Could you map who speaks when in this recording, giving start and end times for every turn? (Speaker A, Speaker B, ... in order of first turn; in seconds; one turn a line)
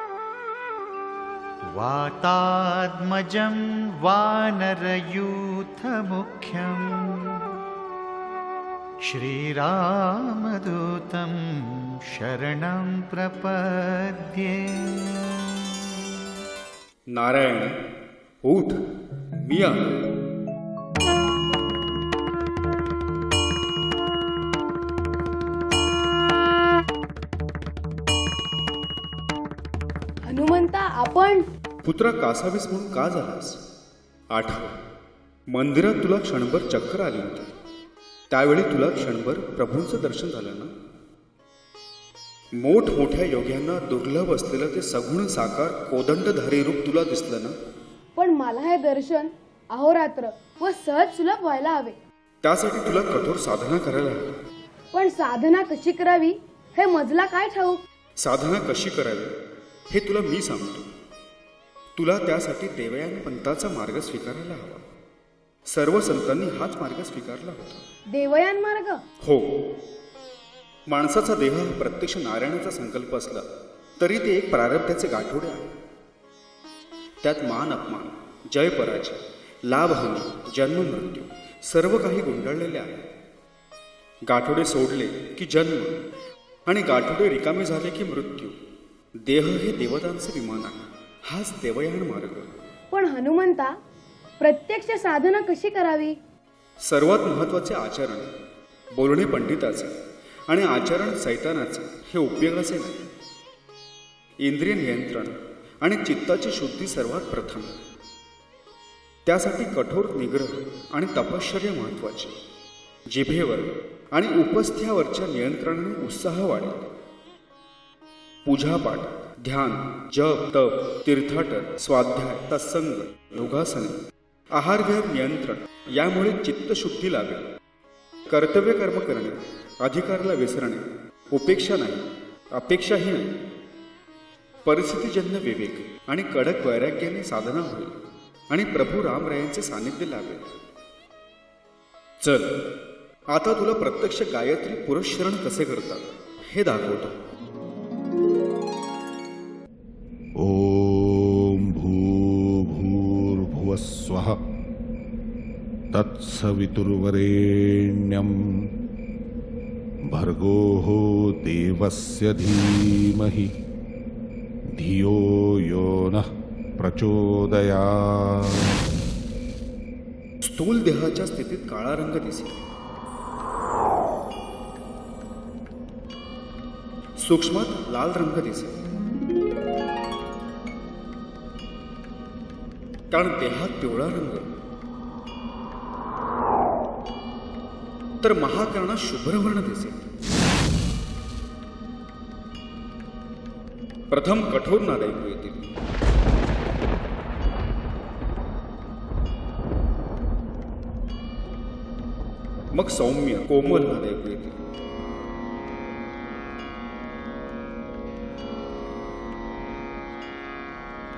Speaker A: 1.8-7.4
Speaker A: 9.1-11.4
Speaker A: 12.2-15.2
Speaker B: 17.1-17.8
Speaker B: 18.4-18.8
Speaker B: 19.4-20.0
Speaker C: 30.3-31.4
Speaker B: 31.8-33.6
Speaker B: 34.3-34.7
Speaker B: 35.5-37.5
Speaker B: 38.3-40.7
Speaker B: 42.6-47.5
Speaker C: 48.2-52.0
Speaker B: 52.4-54.4
Speaker C: 54.9-57.8
Speaker B: 58.2-59.3
Speaker B: 59.9-60.9
Speaker B: 62.0-64.8
Speaker B: 65.7-67.8
Speaker C: 68.1-69.0
Speaker B: 69.2-69.7
Speaker B: 70.9-73.5
Speaker B: 74.0-75.7
Speaker B: 77.2-83.1
Speaker B: 84.3-86.0
Speaker B: 86.7-88.6
Speaker B: 89.2-92.6
Speaker C: 92.9-93.7
Speaker C: 94.4-96.1
Speaker B: 96.8-98.3
Speaker B: 98.9-99.9
Speaker B: 100.5-103.0
Speaker B: 104.4-107.8
Speaker B: 109.2-112.3
Speaker B: 113.1-116.9
Speaker B: 118.4-124.0
Speaker B: 124.5-127.5
Speaker B: 128.3-133.4
Speaker B: 134.6-137.9
Speaker B: 138.5-140.5
Speaker B: 142.2-142.6
Speaker B: 143.3-147.1
Speaker D: 150.4-154.3
Speaker D: 155.9-158.7
Speaker D: 160.1-163.5
Speaker D: 164.7-166.2
Speaker D: 166.8-168.7
Speaker B: 170.4-172.7
Speaker B: 177.2-178.8
Speaker B: 183.1-184.6
Speaker B: 188.2-190.1
Speaker B: 194.1-195.7
Speaker B: 202.7-204.6